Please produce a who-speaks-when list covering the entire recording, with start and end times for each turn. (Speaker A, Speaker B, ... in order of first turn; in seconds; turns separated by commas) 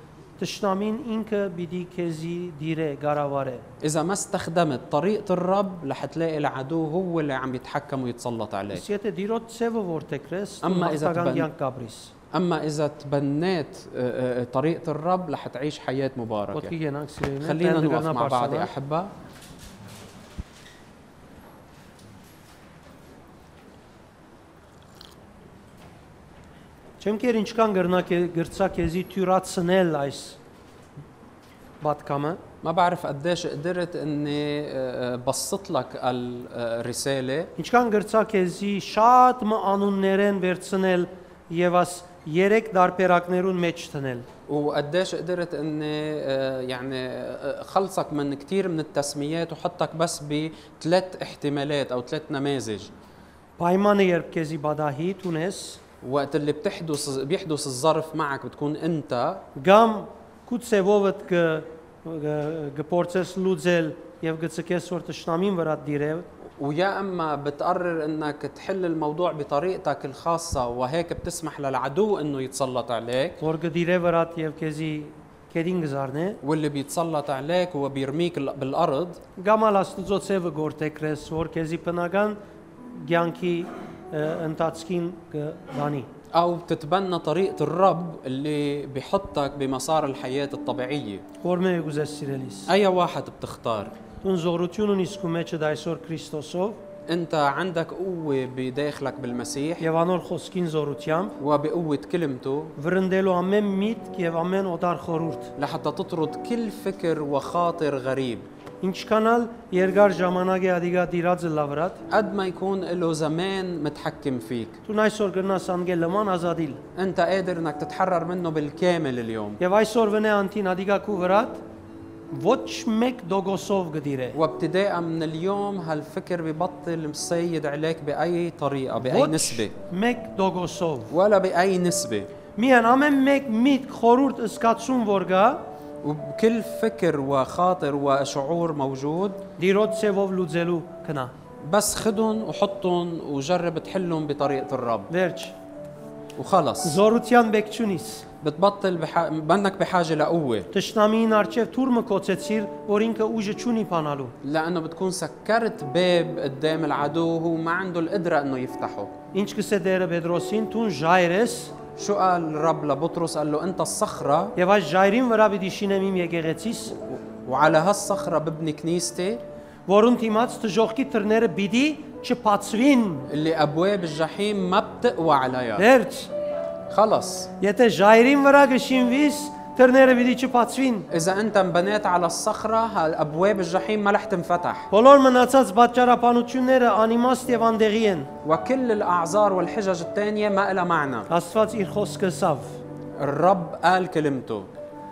Speaker A: 0.4-3.6, Speaker B: 3.8-8.8, Speaker A: 8.7-12.1, Speaker B: 10.6-11.5, Speaker B: 12.3-16.7, Speaker A: 16.5-18.7, Speaker B: 17.4-19.1, Speaker A: 27.0-30.4, Speaker A: 31.8-32.4, Speaker B: 32.6-37.5, Speaker A: 37.6-44.2, Speaker B: 44.5-52.9, Speaker A: 53.6-55.8, Speaker B: 56.0-59.4, Speaker A: 59.5-66.2, Speaker B: 66.6-73.4, Speaker A: 73.4-76.4, Speaker B: 76.4-79.2, Speaker A: 79.4-82.4, Speaker A: 82.9-86.1, Speaker B: 86.3-91.2, Speaker A: 91.4-92.7, Speaker B: 92.7-93.9, Speaker A: 94.2-96.8, Speaker B: 97.1-99.8, Speaker A: 99.8-101.4, Speaker B: 101.4-102.7, Speaker A: 102.8-105.5, Speaker B: 105.6-108.5, Speaker A: 108.8-112.0, Speaker B: 112.1-114.8, Speaker A: 114.8-116.8, Speaker B: 116.9-119.6, Speaker A: 119.6-121.6, Speaker A: 122.3-124.4, Speaker B: 124.3-129.7, Speaker A: 129.0-131.1, Speaker B: 131.1-132.3, Speaker A: 132.6-135.6, Speaker B: 136.0-139.4, Speaker A: 139.6-141.3, Speaker B: 141.6-145.1, Speaker A: 145.1-145.5, Speaker B: 146.3-147.0, Speaker A: 146.8-148.2, Speaker B: 148.4-150.7, Speaker A: 150.7-154.3, Speaker B: 154.4-159.1, Speaker A: 159.3-161.7, Speaker B: 162.0-164.5, Speaker A: 164.6-166.9, Speaker B: 167.1-169.4, Speaker A: 169.9-173.3, Speaker B: 173.3-175.9, Speaker A: 175.8-176.3, Speaker B: 176.9-177.5, Speaker A: 177.6-181.1, Speaker B: 181.1-184.9, Speaker A: 184.9-188.3, Speaker B: 188.4-191.3, Speaker A: 191.3-192.8, Speaker B: 193.2-194.7